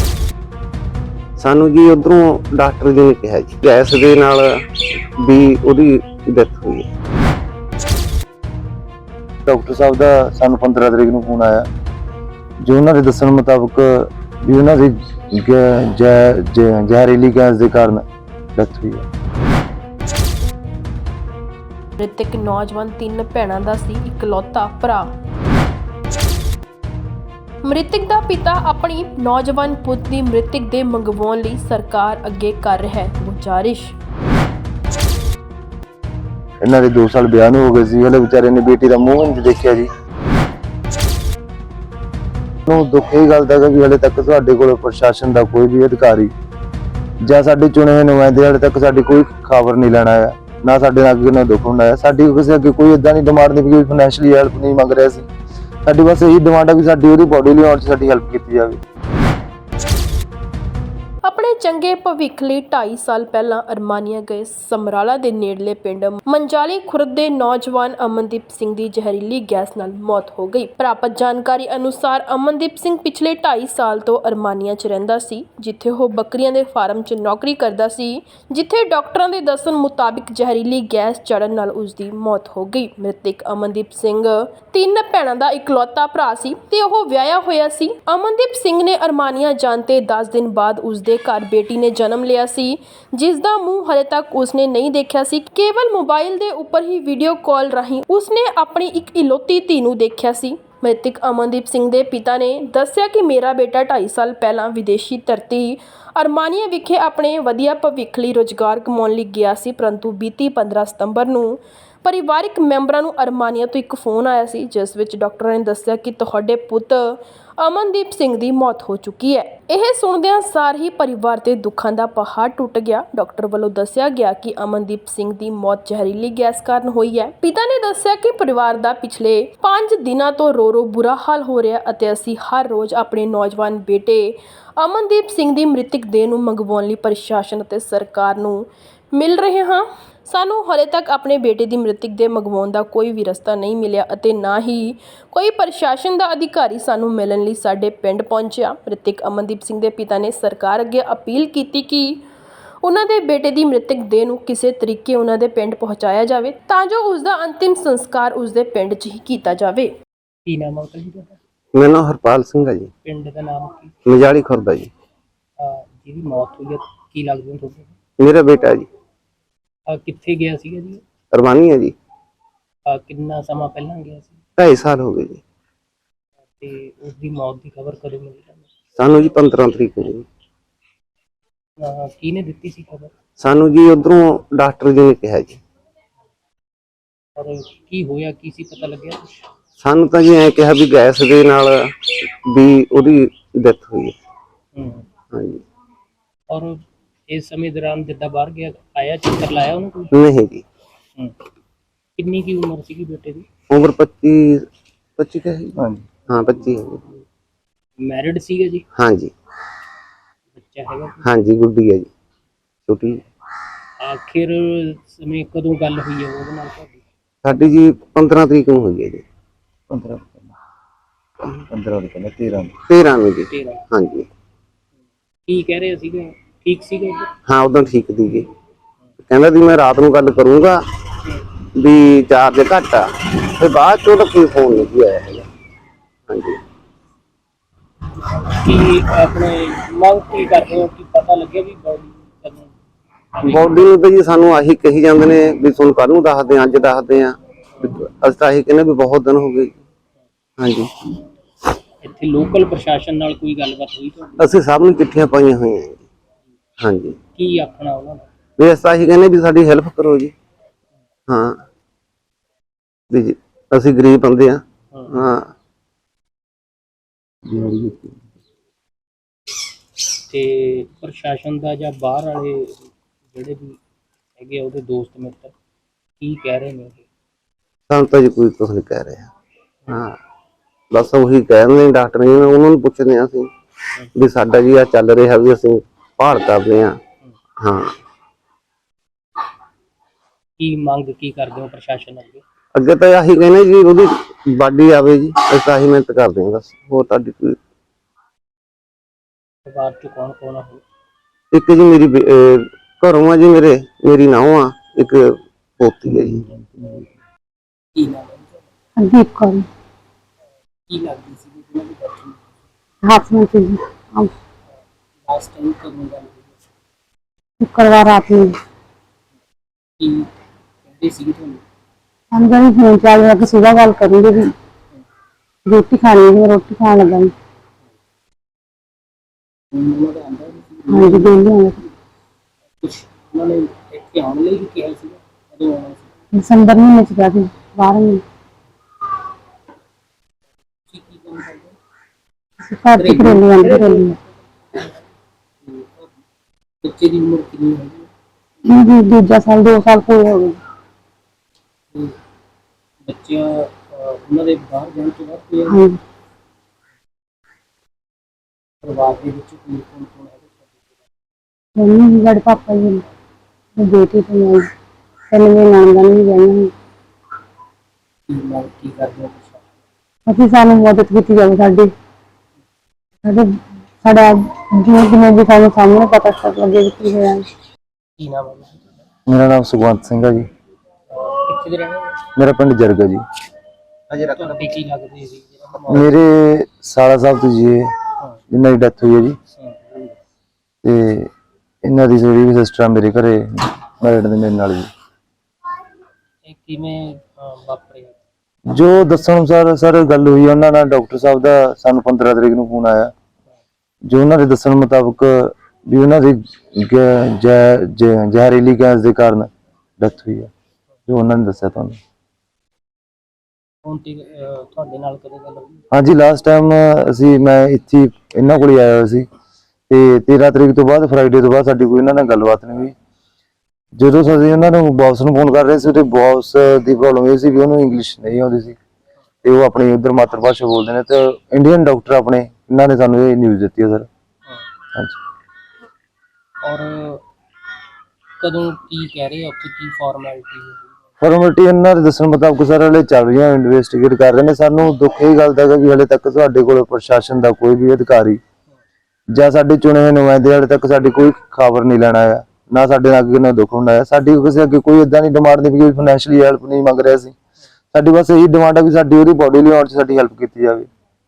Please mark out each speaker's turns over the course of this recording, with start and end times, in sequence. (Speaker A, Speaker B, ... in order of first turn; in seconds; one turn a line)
Speaker A: 1.4-6.9
Speaker B: 9.5-11.7
Speaker B: 12.6-18.0
Speaker B: 18.6-19.1
Speaker C: 22.0-25.1
Speaker C: 27.6-34.0
Speaker B: 36.6-39.9
Speaker B: 42.7-46.3
Speaker B: 47.2-55.3
Speaker B: 55.9-58.8
Speaker C: 61.3-152.2
Speaker C: 152.8-159.9
Speaker D: 160.5-161.4
Speaker A: 161.8-162.9
Speaker D: 163.1-163.9
Speaker A: 164.1-164.9
Speaker D: 165.6-167.9
Speaker A: 168.2-168.9
Speaker D: 169.9-171.0
Speaker A: 171.3-171.9
Speaker D: 172.9-174.4
Speaker A: 174.6-175.4
Speaker D: 176.6-178.7
Speaker A: 179.0-180.3
Speaker D: 181.8-183.1
Speaker A: 183.4-185.6
Speaker D: 187.4-189.3
Speaker A: 189.8-194.2
Speaker D: 194.8-195.1
Speaker A: 195.3-195.6
Speaker D: 196.5-200.1
Speaker A: 200.1-200.7
Speaker D: 202.2-203.5
Speaker A: 203.7-204.7
Speaker A: 205.2-207.0
Speaker B: 205.8-206.1
Speaker D: 208.0-208.8
Speaker A: 209.0-209.3
Speaker D: 210.6-211.2
Speaker A: 211.2-212.1
Speaker A: 212.9-213.2
Speaker D: 214.0-217.0
Speaker A: 217.4-219.2
Speaker B: 219.9-220.5
Speaker B: 221.7-222.7
Speaker A: 222.9-224.3
Speaker D: 223.5-223.8
Speaker D: 225.5-227.3
Speaker A: 227.5-228.5
Speaker A: 229.3-230.8
Speaker A: 231.8-235.5
Speaker A: 236.3-236.6
Speaker D: 238.4-242.7
Speaker D: 243.3-243.9
Speaker A: 243.5-249.7
Speaker A: 250.6-250.9
Speaker D: 252.0-254.6
Speaker A: 254.4-256.0
Speaker A: 256.8-257.2
Speaker D: 257.4-258.3
Speaker A: 258.6-260.3
Speaker A: 261.3-261.6
Speaker A: 263.1-265.5
Speaker D: 264.9-265.2
Speaker B: 267.5-268.1
Speaker D: 270.3-273.8
Speaker D: 274.4-275.5
Speaker D: 276.2-277.0
Speaker A: 277.9-279.3
Speaker A: 279.9-280.1
Speaker A: 280.9-283.5
Speaker A: 284.2-287.0
Speaker A: 287.6-287.9
Speaker D: 290.6-292.4
Speaker A: 292.8-297.6
Speaker D: 299.7-300.8
Speaker A: 301.5-306.4
Speaker B: 306.1-307.1
Speaker D: 307.9-308.6
Speaker E: 309.0-309.7
Speaker D: 310.9-312.4
Speaker E: 313.0-314.3
Speaker D: 315.2-316.5
Speaker E: 317.6-318.6
Speaker D: 320.0-320.3
Speaker D: 320.9-321.6
Speaker E: 322.3-324.5
Speaker E: 325.7-327.3
Speaker D: 329.7-331.4
Speaker E: 330.9-331.8
Speaker D: 332.8-336.1
Speaker E: 336.4-338.2
Speaker D: 340.9-341.8
Speaker E: 342.6-344.2
Speaker D: 343.0-344.2
Speaker D: 345.6-346.1
Speaker D: 346.8-348.1
Speaker E: 348.7-350.6
Speaker D: 353.1-355.8
Speaker E: 355.7-356.0
Speaker D: 358.8-360.5
Speaker E: 361.8-363.0
Speaker E: 363.8-364.7
Speaker E: 365.3-366.7
Speaker D: 368.3-369.6
Speaker E: 370.3-371.9
Speaker E: 374.0-377.5
Speaker D: 378.2-378.9
Speaker B: 379.3-380.5
Speaker D: 381.1-382.2
Speaker B: 382.4-383.2
Speaker D: 384.1-386.2
Speaker B: 385.9-387.9
Speaker B: 388.5-389.4
Speaker D: 389.6-390.0
Speaker B: 390.8-391.3
Speaker B: 391.8-394.9
Speaker D: 396.5-398.2
Speaker B: 398.7-403.1
Speaker B: 404.1-410.5
Speaker B: 411.1-412.0
Speaker D: 413.8-415.8
Speaker B: 415.9-419.3
Speaker B: 419.9-422.9
Speaker B: 424.0-428.8
Speaker B: 429.4-434.1
Speaker D: 436.6-437.2
Speaker D: 438.4-440.9
Speaker B: 441.2-448.4
Speaker B: 449.3-457.3
Speaker B: 457.9-460.9